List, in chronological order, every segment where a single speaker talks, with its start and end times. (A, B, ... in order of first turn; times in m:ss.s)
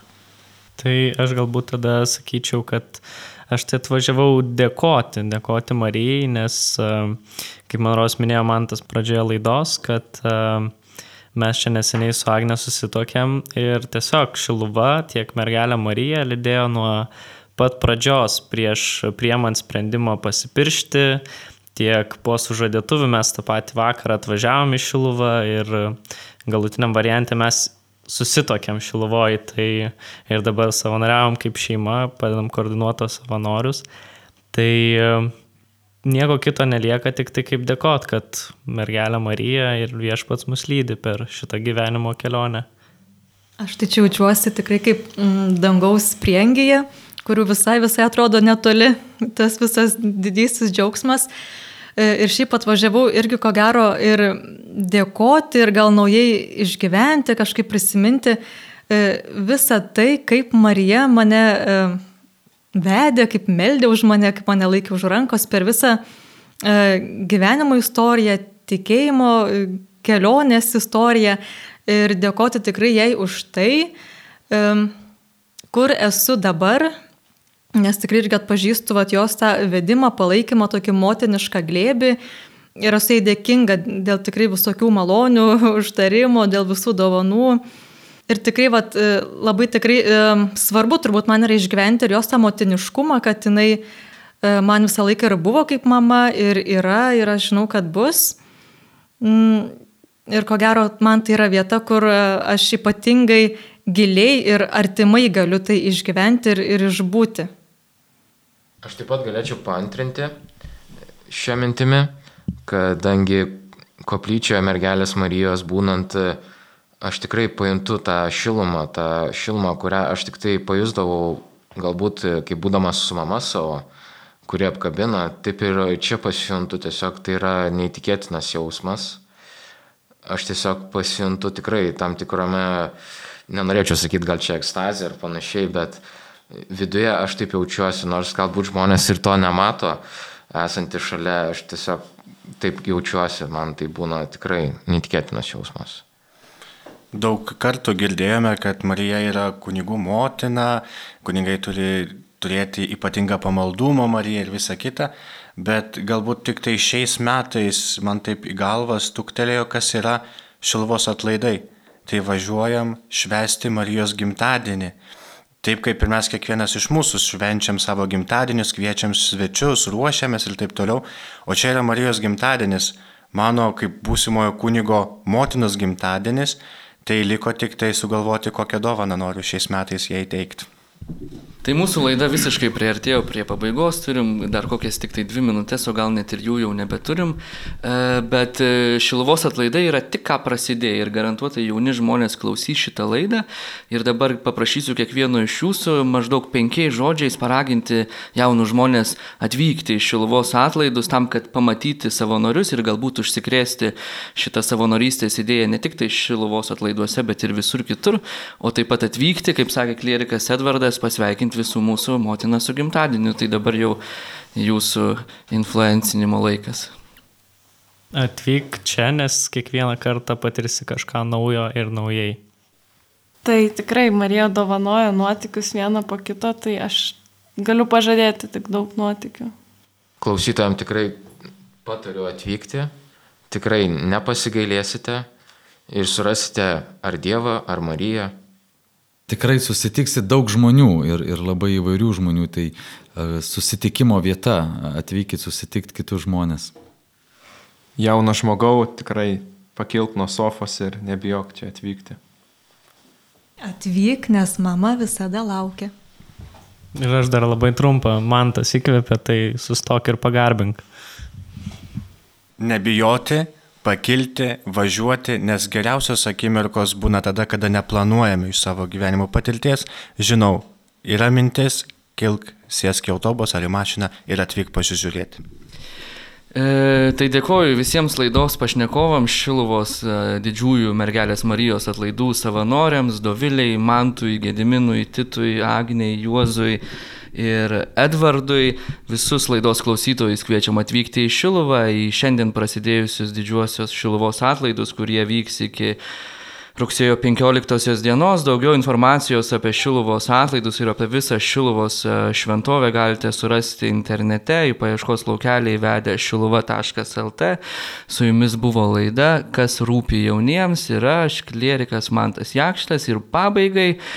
0:00.8-0:10.7 A
0:11.3-0:33.8 A
0:34.5-0:35.3 A
0:36.0-0:42.6 A
0:43.6-0:51.3 B
0:52.0-0:58.4 B
0:58.9-1:02.0 B
1:02.7-1:06.0 B
1:06.6-1:13.9 B
1:14.5-1:14.9 B
1:15.7-1:16.9 B
1:17.8-1:22.2 B
1:22.8-1:27.6 B
1:28.3-1:33.8 B
1:34.4-1:38.4 B
1:39.2-1:39.7 B
1:40.3-1:47.5 B
1:48.8-1:50.4 C
1:51.3-1:56.4 C
1:57.0-2:03.9 C
2:04.4-2:09.2 C
2:10.2-2:12.9 C
2:13.5-2:22.0 C
2:22.6-2:26.0 C
2:27.1-2:45.0 D
2:45.6-3:00.7 D
3:01.6-3:34.0 E
3:34.5-3:36.9 E
3:38.1-3:42.4 A
3:43.4-3:49.5 F
3:50.2-3:51.2 C
3:51.8-3:52.9 C
3:53.5-3:55.3 C
3:55.9-3:58.3 C
3:59.3-4:06.7 G
4:08.0-4:12.2 H
4:13.6-4:15.9 B
4:16.9-4:20.8 A
4:22.6-4:35.4 D
4:36.5-4:46.8 E
4:47.3-4:56.0 E
4:56.8-5:14.0 E